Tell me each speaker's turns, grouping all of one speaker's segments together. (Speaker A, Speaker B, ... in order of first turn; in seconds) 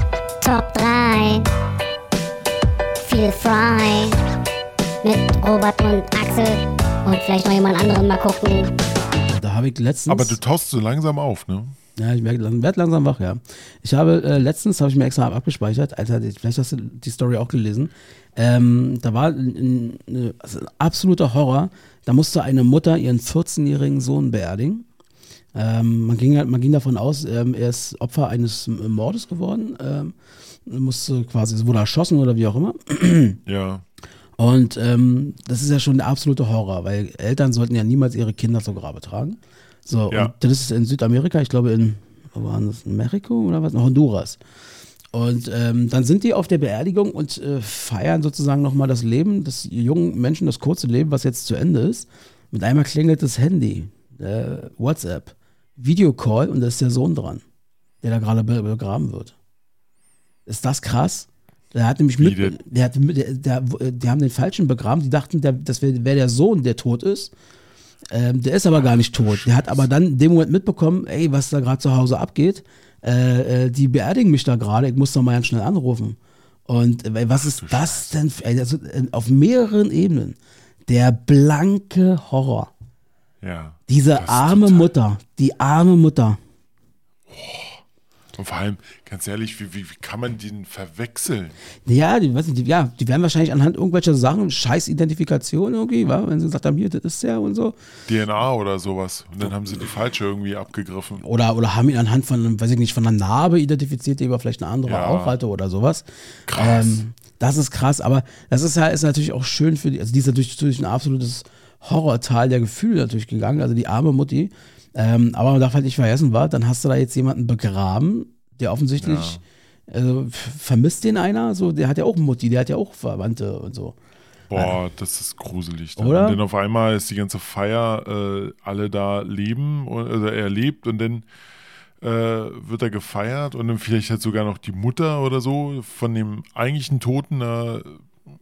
Speaker A: 0.4-1.5, 3.0-4.2, 5.0-8.7
Speaker B: 9.3-10.4, 12.0-24.9, 25.5-30.1, 30.7-33.4, 34.4-44.4, 45.1-57.4, 58.0-59.4, 60.5-67.3, 68.1-82.7, 83.9-86.4, 91.9-97.8, 101.2-124.0, 126.0-126.4
Speaker C: 10.1-11.8, 33.5-33.8, 62.2-62.6, 68.8-69.8, 77.3-78.1, 83.4-84.9, 87.3-87.8, 88.4-91.6, 98.1-101.2, 104.9-105.4, 106.5-107.0, 119.0-119.4, 124.5-131.3, 132.0-138.1